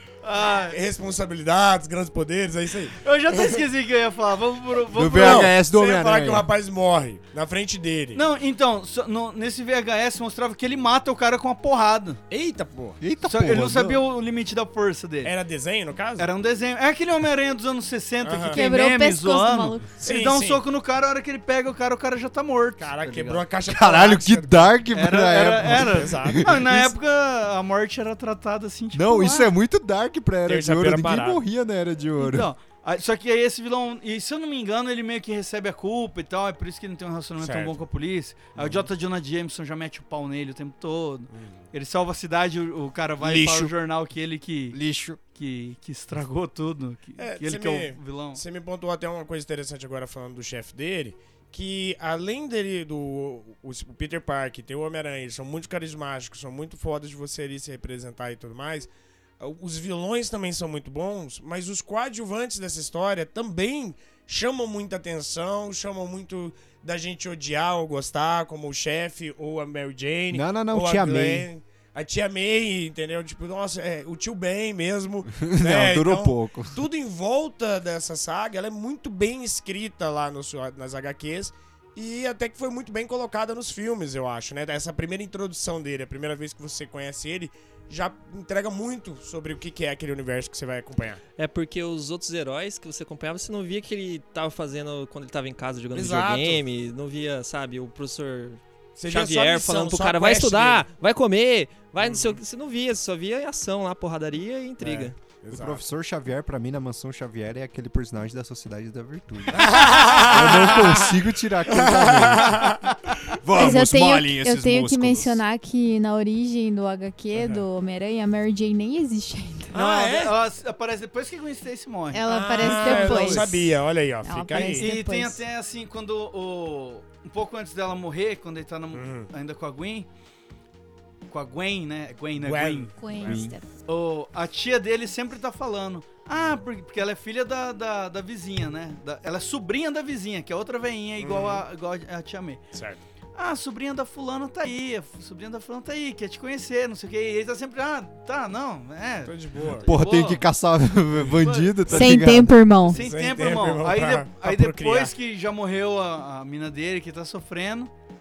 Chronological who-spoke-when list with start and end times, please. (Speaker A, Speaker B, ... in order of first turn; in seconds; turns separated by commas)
Speaker A: 0.2-0.8, Speaker B: 0.7-3.6, Speaker A: 3.0-5.5, Speaker C: 4.9-6.5, Speaker B: 5.1-8.2, Speaker A: 8.1-12.2, Speaker B: 12.3-13.0, Speaker C: 13.0-14.0, Speaker A: 13.2-15.3, Speaker B: 15.2-16.3, Speaker A: 16.2-23.4, Speaker B: 18.2-18.6, Speaker D: 18.5-19.9, Speaker B: 20.0-20.6, Speaker B: 22.8-24.8, Speaker C: 23.6-26.9, Speaker A: 24.9-29.5, Speaker B: 25.6-26.7, Speaker C: 28.9-32.5, Speaker B: 30.5-31.4, Speaker A: 32.2-44.8, Speaker B: 37.4-37.8, Speaker B: 38.5-38.8, Speaker B: 41.3-41.7, Speaker C: 43.2-43.7, Speaker C: 44.7-45.2, Speaker A: 45.3-48.4, Speaker B: 47.2-91.2, Speaker C: 70.3-71.5, Speaker C: 75.3-76.8, Speaker E: 91.4-105.2, Speaker B: 95.9-96.6, Speaker B: 99.0-100.8, Speaker B: 102.0-102.4, Speaker B: 104.8-105.8, Speaker C: 105.5-112.6, Speaker B: 109.5-111.1, Speaker B: 111.7-112.8, Speaker C: 113.4-115.4, Speaker D: 113.5-119.7, Speaker B: 117.3-117.6, Speaker B: 119.7-120.3, Speaker A: 119.7-123.5, Speaker D: 122.1-123.7, Speaker B: 122.2-124.9, Speaker D: 124.2-125.4, Speaker A: 124.5-130.1, Speaker B: 128.9-129.3, Speaker A: 131.3-132.9, Speaker B: 132.4-133.5, Speaker D: 132.9-133.7, Speaker A: 133.8-142.7, Speaker B: 141.2-141.6, Speaker B: 142.7-143.0, Speaker A: 143.3-150.4, Speaker B: 149.2-149.9, Speaker C: 149.8-152.7, Speaker A: 151.3-152.2, Speaker D: 151.9-153.0, Speaker A: 152.9-157.9, Speaker B: 152.9-155.1